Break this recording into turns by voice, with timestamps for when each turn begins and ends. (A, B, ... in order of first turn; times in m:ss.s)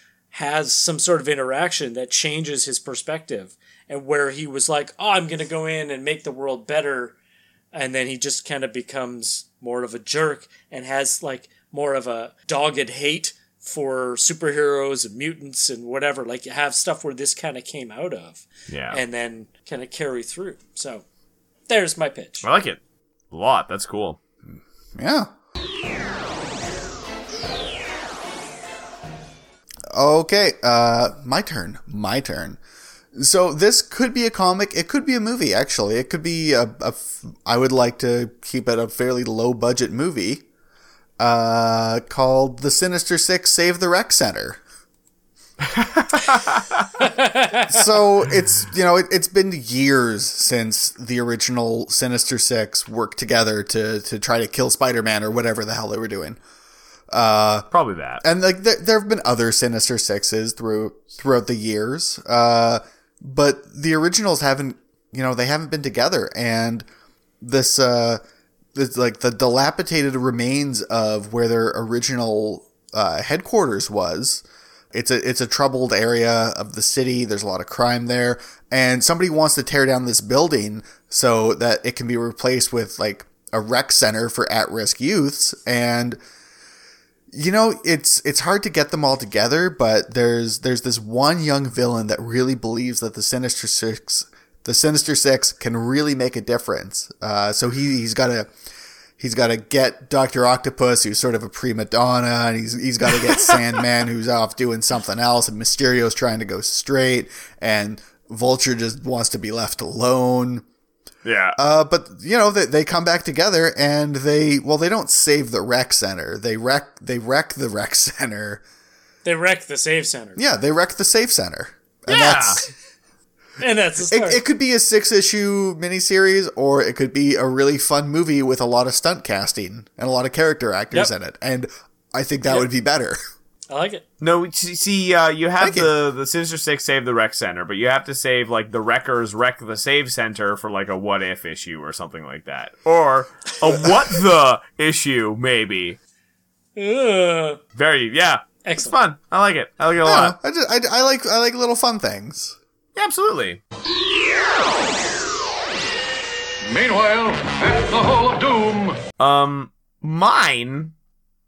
0:00.3-0:07.2 A
0:07.7-0:21.0 A
0:18.7-0:19.0 B
0:21.7-0:22.5 A
0:22.4-0:22.8 B
0:23.3-0:24.2 B
0:24.4-0:25.3 C
0:29.9-0:32.6 C
0:33.1-0:40.4 C
0:41.2-0:44.6 C
0:45.7-0:46.8 B
0:47.0-0:47.8 A
0:47.7-0:56.4 C
0:57.1-0:57.7 C
0:57.7-0:58.2 B
0:58.2-1:06.9 C
1:07.4-1:08.2 C
1:08.7-1:26.2 C
1:27.3-1:38.5 C
1:39.2-1:50.6 C
1:51.2-1:51.6 B
1:51.6-1:58.6 C
1:59.2-2:00.4 A
2:00.4-2:02.6 C
2:02.1-2:02.6 B
2:03.6-2:04.4 A
2:04.1-2:13.2 C
2:13.7-2:14.0 A
2:14.2-2:26.0 B
2:15.6-2:15.9 C
2:26.8-2:27.6 A
2:27.7-2:30.4 B
2:28.6-2:28.9 A
2:30.0-2:32.6 C
2:33.0-2:33.6 B
2:36.7-2:38.9 D
2:39.2-2:40.9 B